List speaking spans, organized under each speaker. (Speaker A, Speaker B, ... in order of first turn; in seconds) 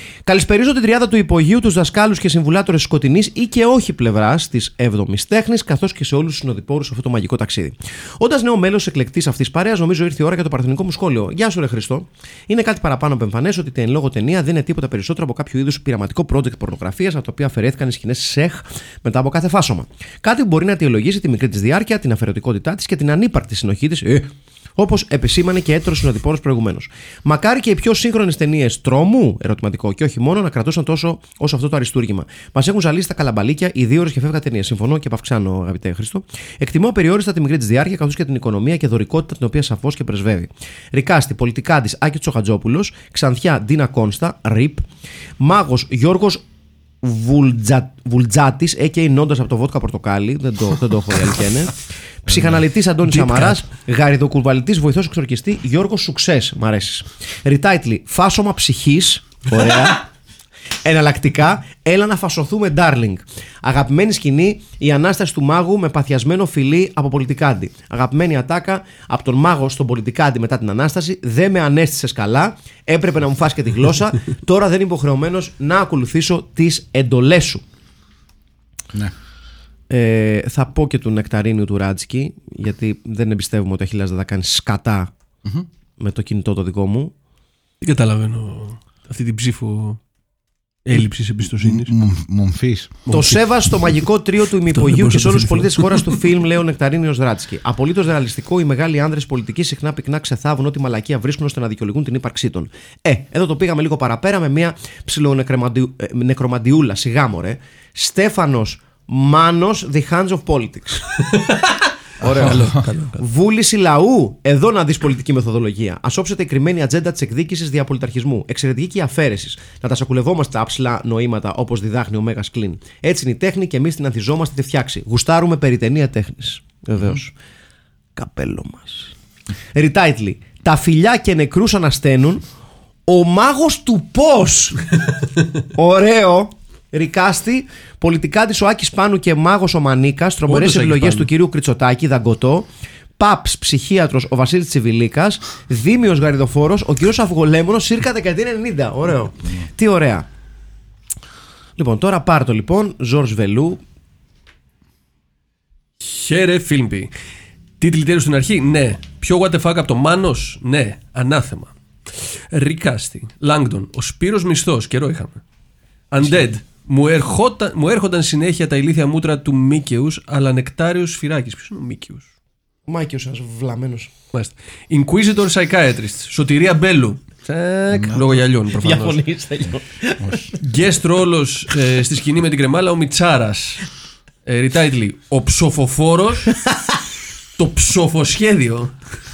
Speaker A: 0.2-44.9, 45.4-46.4, 47.0-60.1, 60.8-77.6, 79.9-85.1, 86.0-87.1, 93.1-111.1, 112.2-112.7, 113.2-127.3, 128.2-129.1, 129.7-132.4, 133.1-134.9, 135.7-142.7, 143.2-150.3, 151.8-153.8, 172.9-174.1, 178.7-180.6, 186.6-186.9
Speaker B: 52.3-52.5, 91.6-93.0, 112.2-112.8, 177.9-178.4, 180.2-180.5
Speaker C: 53.0-53.6, 87.8-90.0, 90.8-91.9, 93.1-93.9, 94.7-96.2, 111.3-113.2, 140.5-141.3, 156.0-157.1, 157.8-161.7, 162.5-165.4, 166.1-172.3, 174.3-179.2, 180.6-183.8, 184.4-186.6, 187.6-188.9